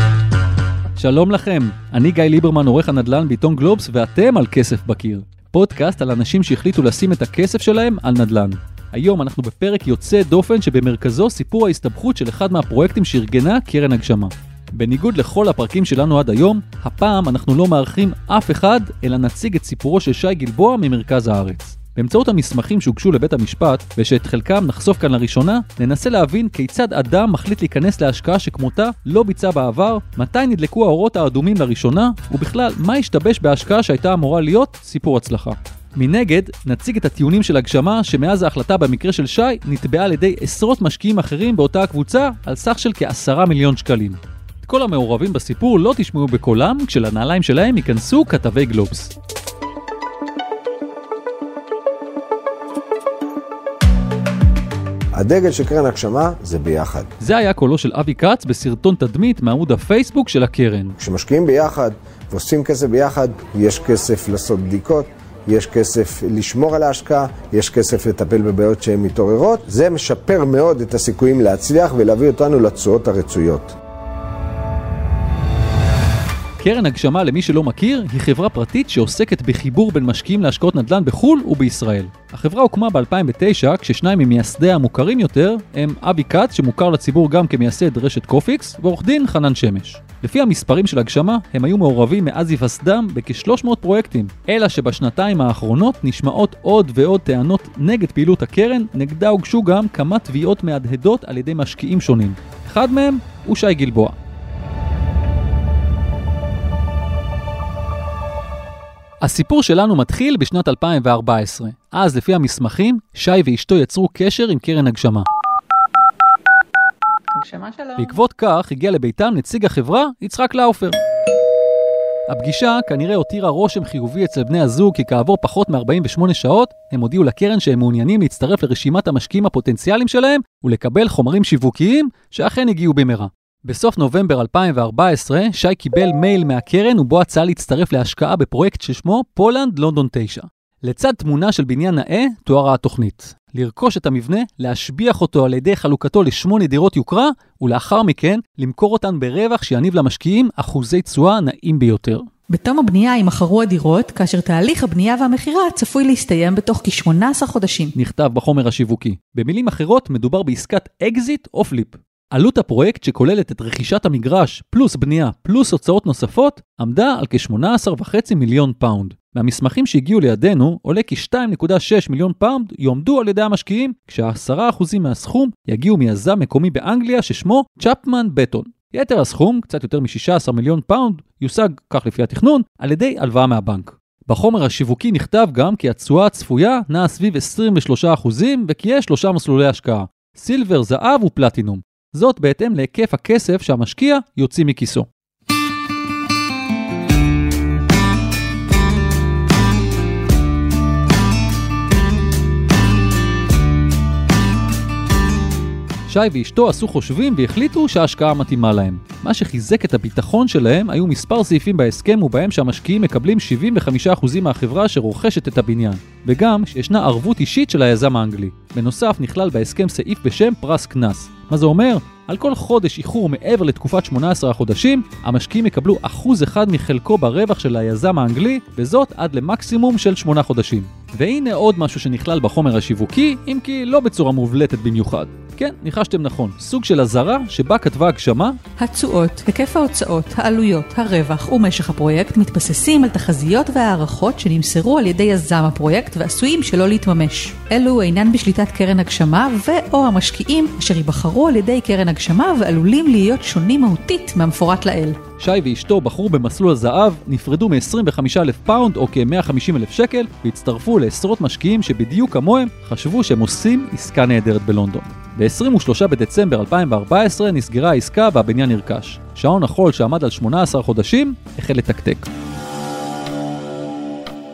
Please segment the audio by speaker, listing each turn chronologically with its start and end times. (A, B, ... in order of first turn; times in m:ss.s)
0:01.0-0:49.1 A
0:55.2-0:57.1 B
0:57.2-1:01.0 A
1:01.0-1:13.8 B
1:16.6-1:44.2 A
1:49.2-1:55.3 A
1:57.4-1:58.0 C
1:58.0-2:01.0 A
2:02.3-2:32.3 A
2:32.5-2:37.9 C
2:38.0-3:15.1 A
3:26.1-3:58.6 A
3:58.8-4:15.2 C
4:15.4-4:32.3 A